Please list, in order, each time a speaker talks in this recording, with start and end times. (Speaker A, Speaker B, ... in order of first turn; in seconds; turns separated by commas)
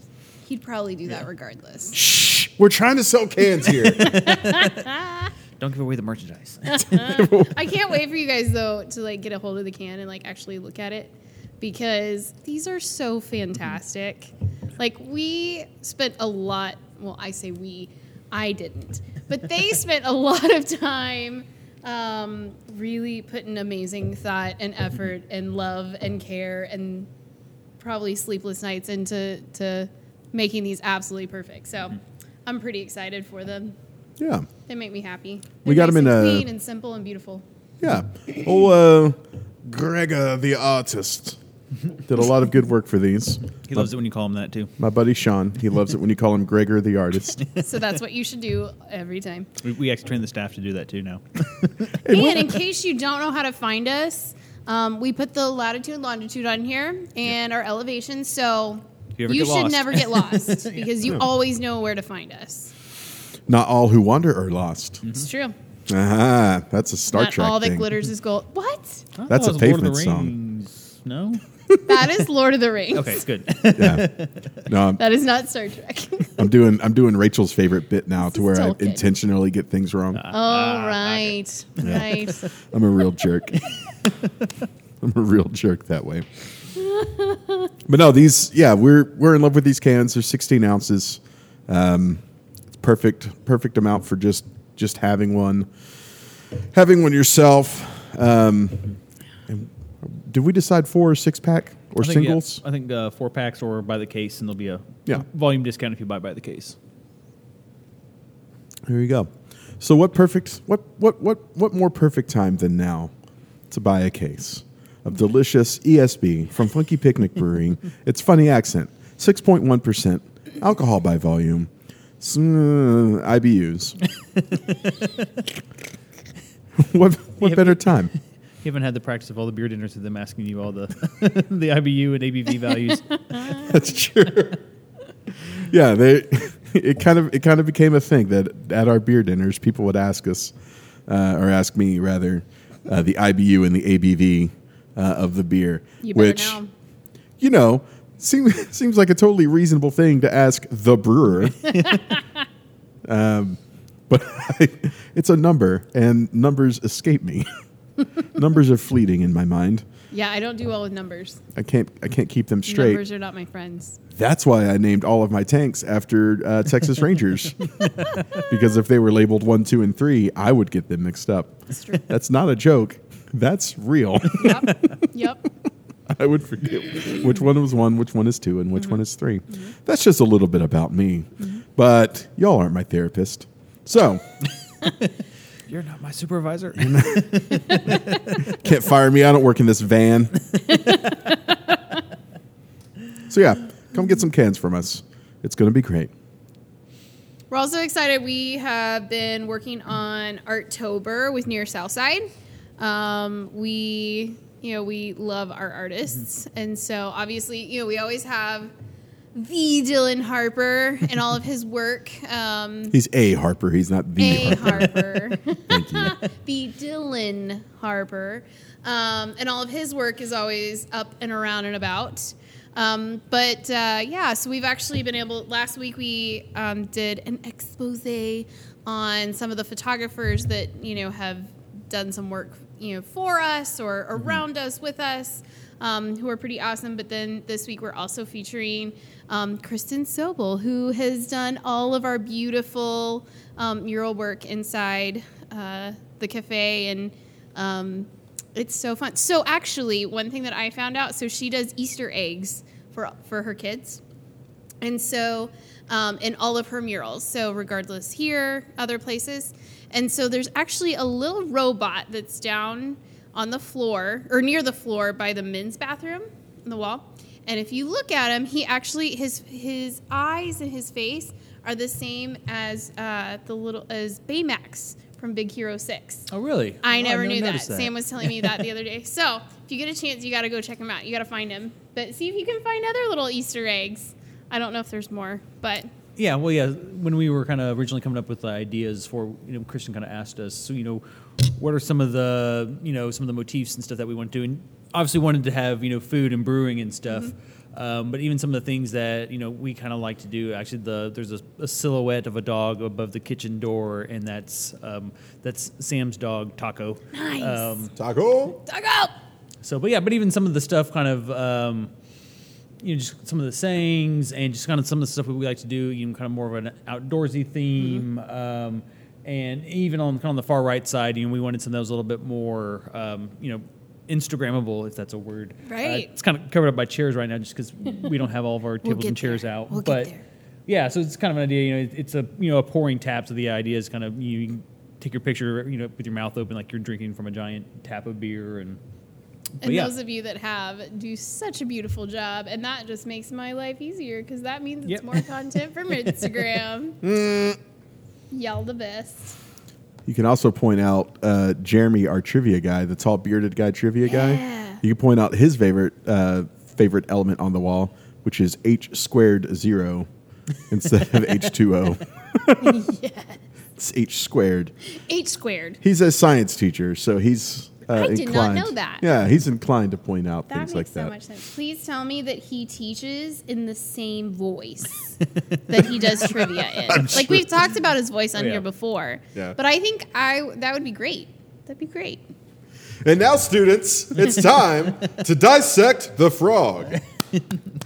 Speaker A: 0.5-2.0, Speaker B: 1.9-4.3, Speaker A: 4.0-5.3, Speaker C: 5.6-7.0, Speaker A: 6.7-27.1, Speaker B: 6.9-7.5, Speaker A: 27.8-33.7, Speaker B: 34.2-34.5, Speaker A: 34.7-37.4, Speaker B: 35.6-36.5, Speaker B: 37.8-41.4, Speaker B: 42.0-43.9, Speaker C: 43.7-44.7, Speaker B: 44.8-47.4, Speaker A: 47.5-49.5, Speaker C: 49.6-51.9, Speaker B: 52.0-52.5, Speaker A: 52.0-62.7, Speaker C: 59.2-60.9, Speaker B: 63.5-65.0, Speaker A: 65.1-65.5, Speaker B: 65.9-67.9, Speaker A: 67.1-69.1, Speaker C: 69.2-71.4, Speaker B: 69.3-70.3, Speaker A: 71.8-73.2, Speaker C: 72.9-74.4, Speaker B: 73.7-74.1, Speaker B: 74.7-75.0, Speaker A: 75.0-76.5, Speaker B: 76.4-80.2, Speaker A: 78.3-79.0, Speaker C: 80.2-82.3, Speaker A: 80.3-82.5, Speaker B: 82.7-83.6, Speaker B: 85.0-86.3, Speaker A: 86.8-87.7, Speaker B: 87.8-92.2, Speaker B: 92.8-95.7, Speaker B: 96.7-98.9, Speaker B: 99.5-102.6, Speaker C: 102.0-106.8, Speaker B: 108.9-113.1, Speaker B: 113.7-124.0, Speaker B: 126.8-128.1, Speaker C: 127.4-128.1, Speaker C: 128.6-133.6, Speaker B: 133.5-134.6, Speaker B: 135.5-140.5, Speaker B: 141.1-146.6, Speaker A: 146.0-146.7, Speaker B: 147.4-151.7, Speaker B: 153.0-157.5, Speaker B: 158.2-159.8, Speaker A: 160.1-161.4, Speaker B: 161.5-163.0, Speaker A: 162.7-164.0, Speaker B: 164.1-174.7, Speaker A: 171.7-172.0, Speaker A: 174.4-175.4, Speaker B: 176.1-184.2, Speaker C: 185.7-188.2, Speaker B: 186.8-190.3, Speaker A: 190.7-191.7, Speaker B: 193.3-196.1, Speaker A: 197.5-202.3, Speaker A: 202.8-208.7, Speaker A: 209.3-212.9, Speaker B: 212.9-215.1, Speaker A: 214.2-254.0, Speaker B: 215.7-216.2, Speaker A: 254.8-276.3, Speaker C: 276.3-278.5, Speaker A: 276.8-285.9, Speaker C: 286.2-307.9, Speaker A: 307.1-307.9, Speaker B: 307.9-308.6, Speaker A: 308.6-309.1, Speaker C: 309.6-311.9, Speaker C: 312.8-330.1, Speaker A: 317.8-318.0, Speaker A: 325.7-326.1, Speaker A: 328.8-330.2, Speaker C: 330.7-338.8, Speaker C: 339.6-339.9, Speaker A: 339.6-347.0, Speaker C: 344.9-345.2, Speaker B: 347.0-347.6, Speaker A: 348.3-349.4, Speaker B: 350.1-360.1, Speaker A: 354.1-354.8, Speaker B: 360.7-362.8, Speaker A: 362.6-363.4, Speaker B: 363.8-364.7, Speaker A: 365.1-365.8, Speaker B: 365.8-371.1, Speaker A: 367.9-369.0, Speaker A: 370.5-375.2, Speaker A: 375.7-382.2, Speaker C: 376.1-377.3, Speaker C: 378.4-378.6, Speaker B: 383.0-387.0